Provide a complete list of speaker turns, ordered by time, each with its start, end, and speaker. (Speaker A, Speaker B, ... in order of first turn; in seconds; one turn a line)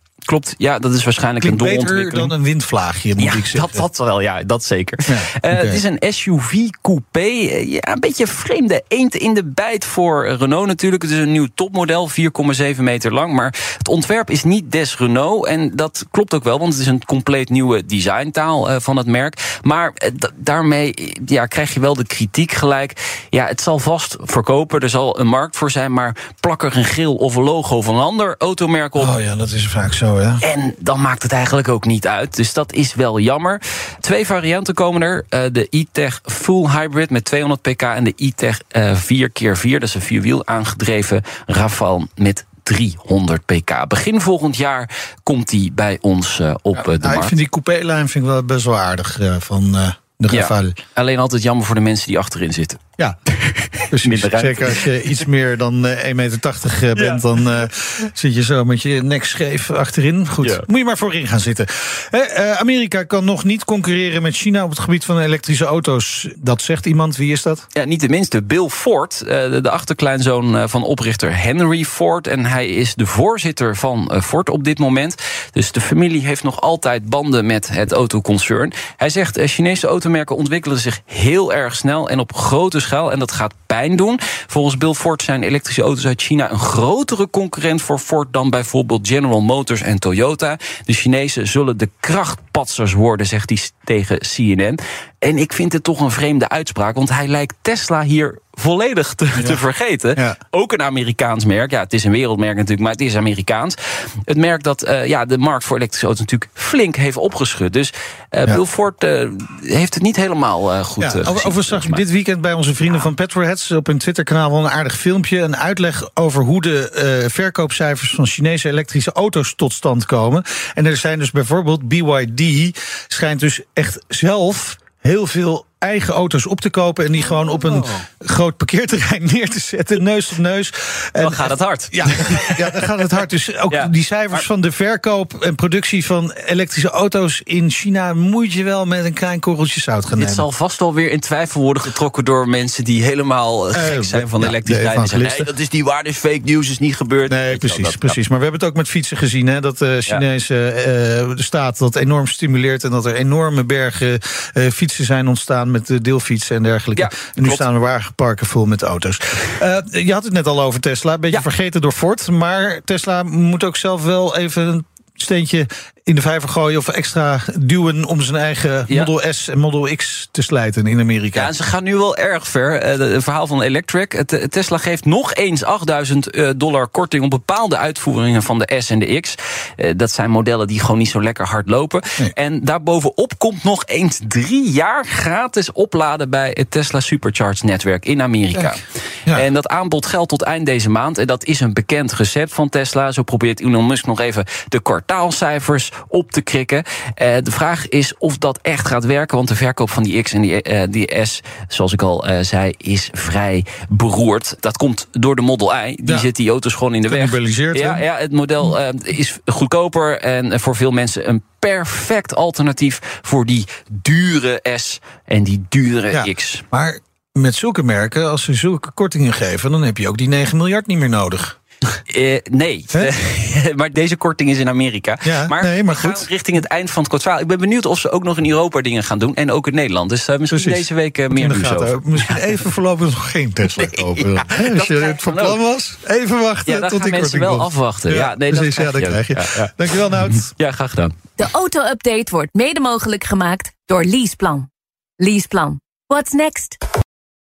Speaker A: 0.2-2.3
Speaker B: 1.4-3.9
Speaker A: 3.2-29.2
Speaker B: 5.1-5.8
Speaker B: 29.0-30.4
Speaker A: 30.4-47.3
Speaker B: 46.7-50.8
Speaker A: 50.3-52.8
Speaker A: 53.4-55.2
Speaker B: 53.9-67.6
Speaker A: 57.0-57.6
Speaker A: 67.7-103.8
Speaker B: 99.3-99.6
Speaker A: 104.3-112.0
Speaker B: 111.0-140.5
Speaker A: 127.2-128.0
Speaker A: 131.2-132.8
Speaker A: 133.7-134.4
Speaker A: 140.2-148.2
Speaker B: 143.7-145.5
Speaker B: 147.3-171.5
Speaker A: 156.9-157.7
Speaker A: 171.3-216.6
Speaker B: 188.5-189.4
Speaker B: 207.1-208.0
Speaker B: 216.1-221.5
Speaker A: 222.1-232.6
Speaker B: 225.2-226.3
Speaker B: 230.5-240.5
Speaker A: 233.7-235.6
Speaker A: 236.7-241.1
Speaker C: 241.4-244.7
Speaker C: 245.2-246.8